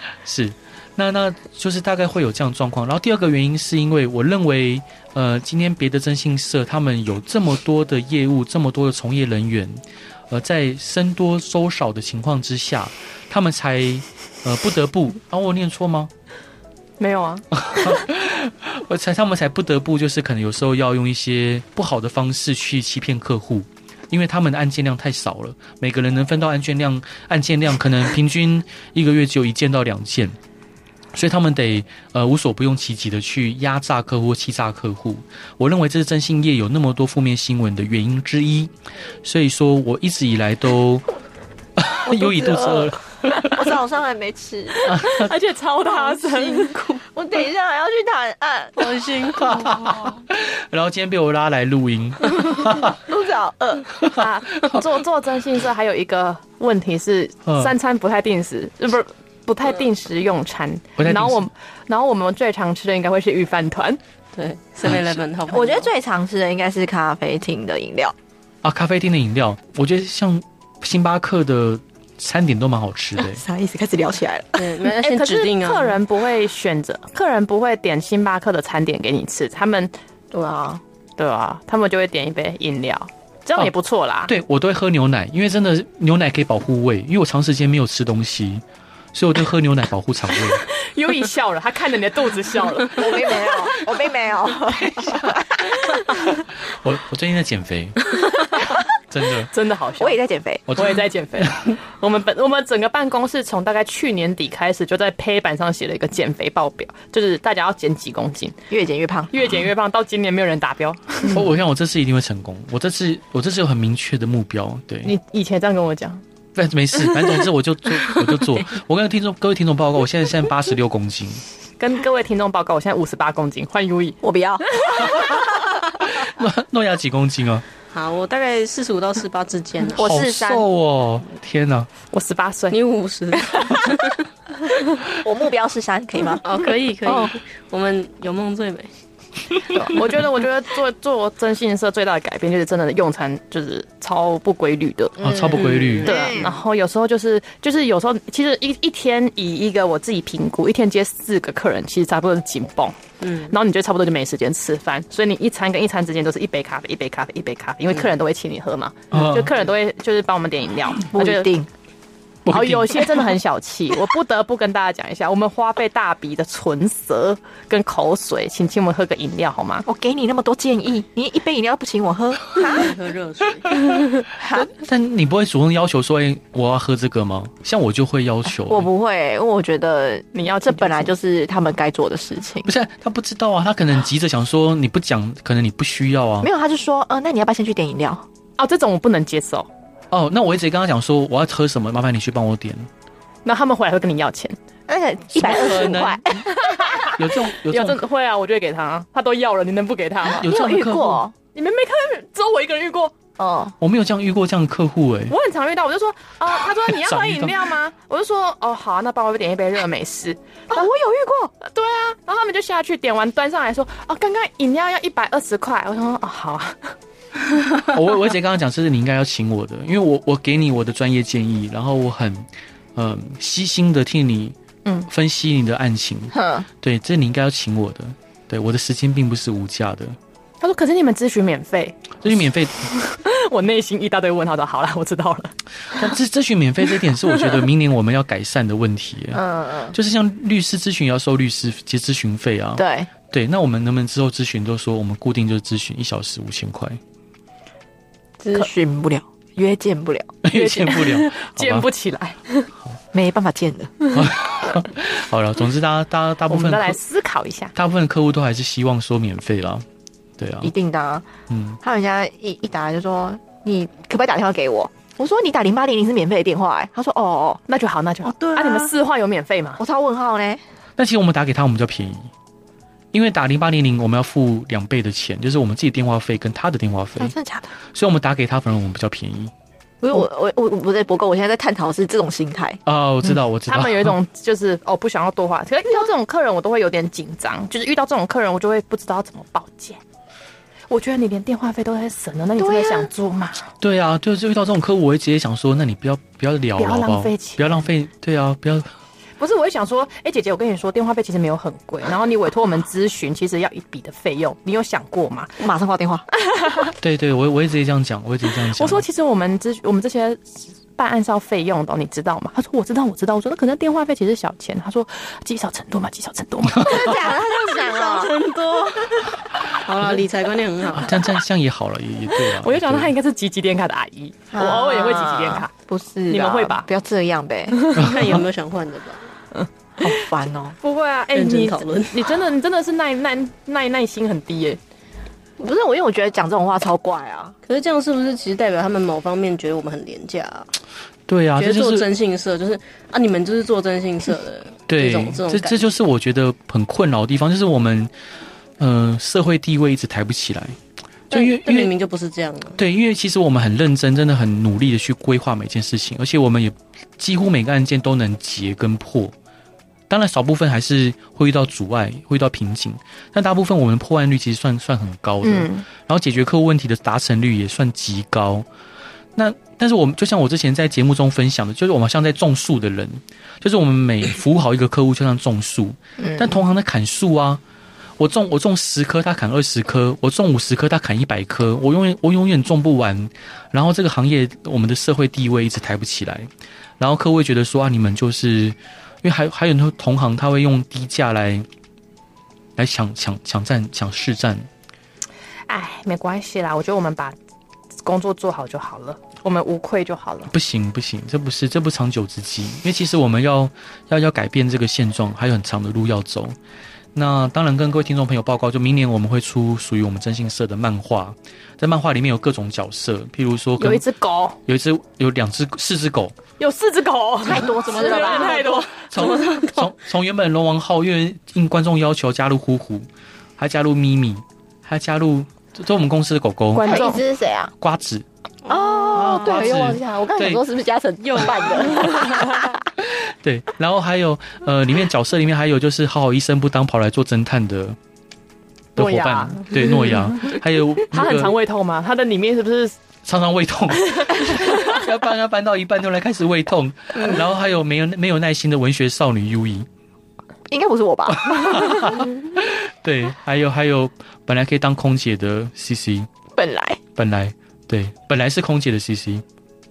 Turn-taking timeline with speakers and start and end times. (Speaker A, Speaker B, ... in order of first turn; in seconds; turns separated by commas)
Speaker A: 0.2-16.1, Speaker B: 17.0-17.4, Speaker A: 17.5-30.4, Speaker A: 31.1-38.7, Speaker A: 39.2-41.1, Speaker A: 41.8-43.7, Speaker C: 42.1-45.1, Speaker A: 44.9-45.3, Speaker B: 45.0-46.8, Speaker C: 45.9-49.0, Speaker D: 48.8-50.0, Speaker A: 49.4-53.0, Speaker C: 53.0-53.9, Speaker A: 54.0-54.8, Speaker B: 54.2-64.0, Speaker A: 57.5-57.7, Speaker A: 61.0-61.5, Speaker D: 64.3-65.9, Speaker C: 65.5-68.2, Speaker A: 68.6-73.4, Speaker C: 73.2-74.8, Speaker D: 74.6-76.0, Speaker B: 75.0-79.9, Speaker C: 80.3-80.8, Speaker B: 81.2-84.3, Speaker A: 84.3-90.7, Speaker B: 90.7-93.5, Speaker C: 92.9-95.6, Speaker A: 94.7-98.2, Speaker A: 99.1-99.5, Speaker B: 99.5-100.2, Speaker C: 100.0-100.7, Speaker A: 100.7-101.7, Speaker B: 100.8-108.6, Speaker C: 108.7-109.5, Speaker B: 109.3-111.5, Speaker A: 111.3-115.1, Speaker B: 115.0-116.2, Speaker A: 116.6-121.4, Speaker B: 121.8-124.2, Speaker C: 124.2-125.8, Speaker B: 124.8-125.2, Speaker A: 126.0-127.7, Speaker D: 127.9-130.0, Speaker C: 129.9-130.7, Speaker A: 130.0-131.9, Speaker B: 132.1-132.8, Speaker D: 132.7-134.2, Speaker C: 135.2-136.5, Speaker D: 136.4-138.9, Speaker C: 137.1-137.3, Speaker B: 139.8-145.2, Speaker A: 145.2-146.1, Speaker C: 145.2-146.6, Speaker D: 145.6-146.5, Speaker B: 146.1-153.0, Speaker D: 153.2-153.5, Speaker B: 153.5-161.5, Speaker A: 159.1-159.6, Speaker C: 161.1-161.7, Speaker A: 162.5-163.3, Speaker B: 162.5-169.8, Speaker C: 169.8-172.9, Speaker D: 172.6-173.8, Speaker C: 174.3-174.7, Speaker A: 174.5-178.9, Speaker C: 178.7-182.7, Speaker B: 180.3-181.1, Speaker A: 182.7-186.5, Speaker C: 186.4-188.2, Speaker B: 188.6-189.7, Speaker A: 190.1-192.9, Speaker B: 193.4-194.6, Speaker C: 194.9-196.7, Speaker A: 195.4-196.5, Speaker B: 196.5-200.5, Speaker A: 197.1-198.0, Speaker A: 200.3-201.2, Speaker C: 200.3-201.3, Speaker B: 201.5-203.1, Speaker C: 203.4-203.8, Speaker A: 203.8-205.3, Speaker B: 205.3-210.9, Speaker A: 206.7-207.7, Speaker C: 210.7-211.5, Speaker B: 211.6-216.9, Speaker A: 217.9-224.6, Speaker A: 225.1-230.2, Speaker C: 226.3-226.7, Speaker B: 230.6-232.2, Speaker A: 232.2-232.9, Speaker B: 232.8-235.5, Speaker A: 235.9-247.0, Speaker C: 239.3-239.9, Speaker C: 242.8-243.1, Speaker C: 248.4-250.3, Speaker A: 250.4-251.9, Speaker B: 250.5-252.7, Speaker C: 253.1-253.9, Speaker A: 254.1-257.0, Speaker B: 256.5-257.7, Speaker A: 257.8-259.9, Speaker A: 260.4-260.7, Speaker C: 260.6-261.3, Speaker A: 261.5-261.8, Speaker C: 261.8-267.6, Speaker B: 267.7-269.8, Speaker C: 268.2-268.9, Speaker C: 269.8-270.6, Speaker A: 271.0-272.3, Speaker A: 273.1-277.4, Speaker C: 277.2-277.7, Speaker A: 277.9-279.5, Speaker C: 280.0-282.8, Speaker A: 282.9-284.2, Speaker B: 283.7-290.0, Speaker B: 290.9-293.7, Speaker C: 292.6-293.1, Speaker A: 293.8-298.9, Speaker B: 296.8-297.6, Speaker B: 299.4-305.6, Speaker C: 305.6-306.2, Speaker B: 306.4-306.9, Speaker A: 307.0-309.1, Speaker B: 308.6-317.2, Speaker A: 316.7-317.1, Speaker C: 316.8-319.2, Speaker D: 317.5-321.2, Speaker A: 320.9-323.1, Speaker B: 322.5-325.7, Speaker C: 324.5-327.9, Speaker B: 326.3-326.9, Speaker B: 327.9-328.2, Speaker D: 327.9-329.3, Speaker A: 328.0-328.3, Speaker B: 329.5-330.2, Speaker C: 330.0-330.8, Speaker B: 330.8-334.8, Speaker D: 331.3-332.4, Speaker C: 335.6-337.5, Speaker D: 337.7-340.7, Speaker A: 341.3-342.1, Speaker D: 341.6-345.9, Speaker A: 344.9-348.1, Speaker A: 348.8-350.8, Speaker A: 351.3-351.9, Speaker D: 351.3-352.8, Speaker A: 352.8-359.3, Speaker A: 360.1-368.7, Speaker B: 365.4-365.9, Speaker A: 369.4-377.6, Speaker C: 376.2-376.6, Speaker A: 378.2-391.7, Speaker A: 392.8-394.7, Speaker B: 395.7-397.4, Speaker B: 398.0-400.5, Speaker A: 400.5-406.6, Speaker A: 407.1-414.0, Speaker B: 413.8-414.6, Speaker A: 414.7-416.4, Speaker B: 416.6-419.1, Speaker C: 417.4-418.9, Speaker D: 417.9-419.9, Speaker A: 419.0-423.1, Speaker A: 423.6-427.0, Speaker B: 426.7-427.2, Speaker C: 426.8-427.7, Speaker A: 427.8-428.3, Speaker C: 428.7-432.8, Speaker A: 429.1-430.6, Speaker B: 432.2-432.7, Speaker A: 433.0-438.0, Speaker B: 439.0-440.6, Speaker A: 439.0-441.6, Speaker B: 441.1-443.0, Speaker A: 443.2-449.9, Speaker B: 444.2-445.0, Speaker C: 450.7-452.3, Speaker A: 451.3-456.3, Speaker C: 456.6-457.0, Speaker A: 457.2-459.4